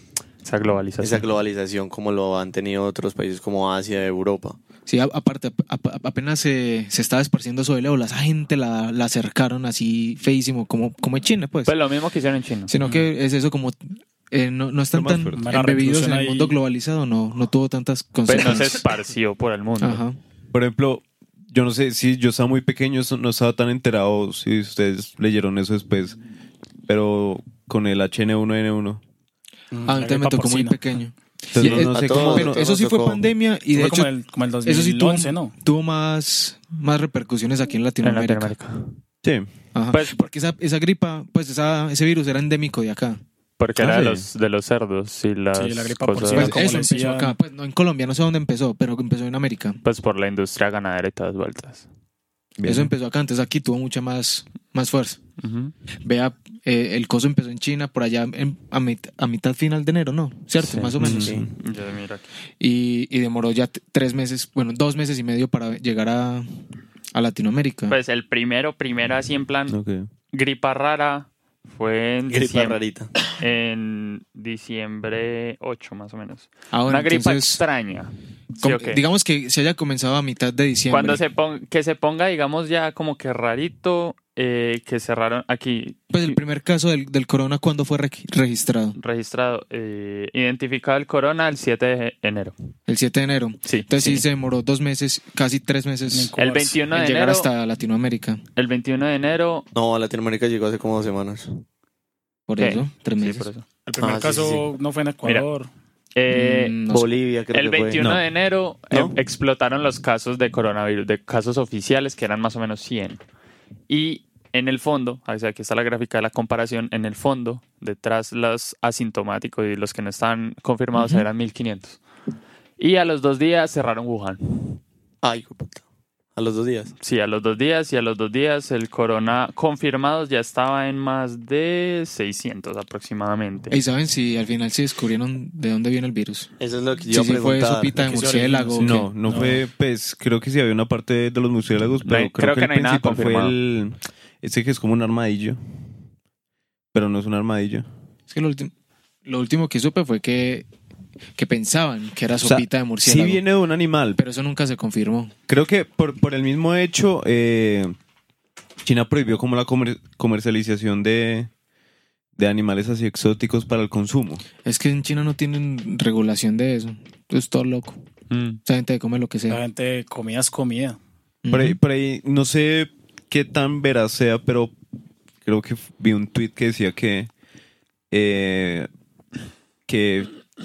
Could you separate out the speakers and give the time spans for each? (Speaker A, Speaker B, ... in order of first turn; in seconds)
Speaker A: 0.5-1.3, 11.7-12.7, 18.3-20.0, 38.0-39.0, 39.9-40.2, 43.6-46.7, 49.8-51.9, 55.4-55.7, 60.6-60.9, 61.6-62.2, 67.9-69.8, 70.3-72.8, 73.4-79.0, 80.9-86.4, 89.0-92.5, 93.7-94.2, 96.4-97.5, 98.6-99.7, 102.6-103.7, 106.2-106.8, 107.5-113.2, 113.9-122.0, 122.8-124.8, 127.0-133.8, 142.1-143.5, 168.3-168.6
Speaker B: 1.0-4.6, 31.6-33.2, 61.2-61.4, 72.3-73.1, 99.7-101.6, 104.0-104.7, 106.9-108.0, 125.2-125.8, 126.4-126.9, 136.6-138.0
Speaker C: 4.9-11.7, 12.7-18.8, 19.8-20.2, 29.9-34.1, 34.6-38.5, 39.8-43.2, 46.3-49.8, 52.6-55.2, 56.0-61.4, 62.6-66.5, 67.1-68.0, 76.7-77.6, 78.6-81.2, 86.1-89.0, 92.9-96.3, 96.9-98.4, 102.5-103.5, 106.3-107.1, 121.0-121.2, 133.7-136.5, 137.1-139.1, 148.3-148.7, 149.2-150.7, 151.4-153.4, 154.2-155.3, 164.6-168.0, 168.7-169.6, 171.4-171.8
Speaker D: 14.9-15.5, 20.5-26.2, 26.9-29.0, 31.6-32.6, 43.8-44.3, 52.6-52.9, 61.0-61.5, 69.7-70.1, 138.8-145.6, 146.9-147.9, 152.4-154.2, 155.5-157.9, 158.8-161.5, 162.4-164.4, 171.5-174.7, 175.4-177.3, 178.1-178.9, 179.9-180.3
Speaker E: 15.4-16.6, 29.7-30.8, 33.7-35.5, 45.5-47.4, 96.1-96.8, 103.9-105.7, 138.0-139.6, 169.5-171.0